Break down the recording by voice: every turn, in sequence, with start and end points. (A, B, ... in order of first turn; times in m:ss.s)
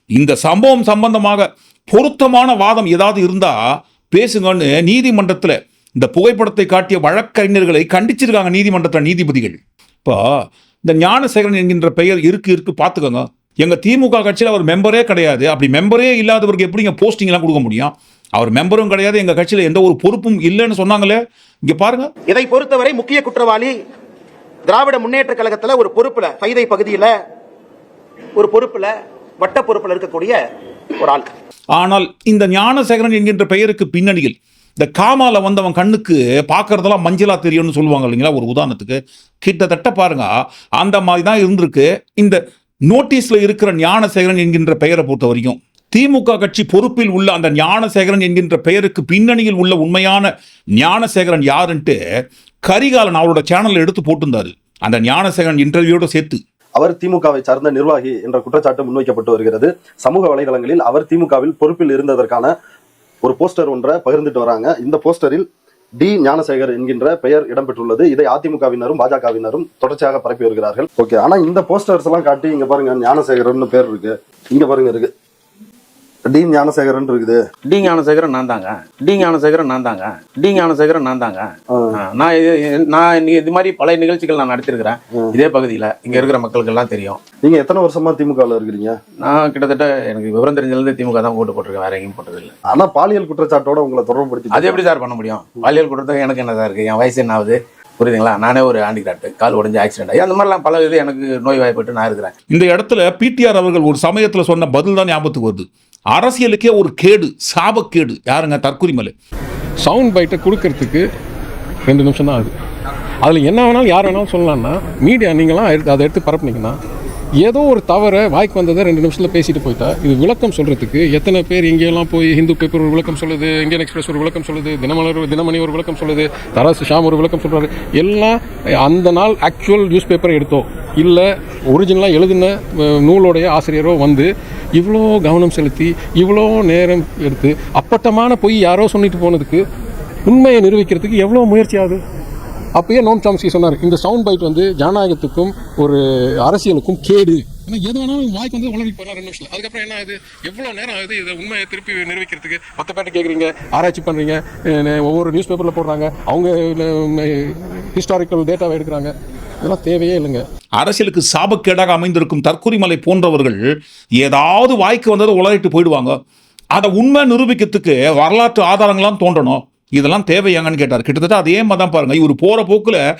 0:00.1-0:03.6 A
0:04.1-0:10.2 A
0:10.9-0:22.1 A
0:22.3-0:23.8 B
0:24.7-0:27.1 B
0:28.4-0:30.4 B
0:31.0-0:31.3 B
0:31.8-0:52.0 A
0:52.6-0:56.4 A
0:56.8-1:02.5 C
1:03.2-1:05.4 C
1:06.0-1:15.1 C
1:16.3-1:17.4 C
1:17.7-1:27.2 D
1:27.4-1:29.0 C
1:29.2-1:32.6 D
1:32.7-1:34.8 C
1:34.5-1:42.3 D
1:42.5-1:49.1 A
1:49.8-1:51.0 E
1:51.9-1:52.5 E
1:53.2-1:56.8 E
1:57.4-2:19.6 E
2:20.3-2:22.0 E
2:22.8-2:40.4 E
2:40.8-2:43.6 A
2:44.2-2:46.2 A
2:46.8-2:53.0 A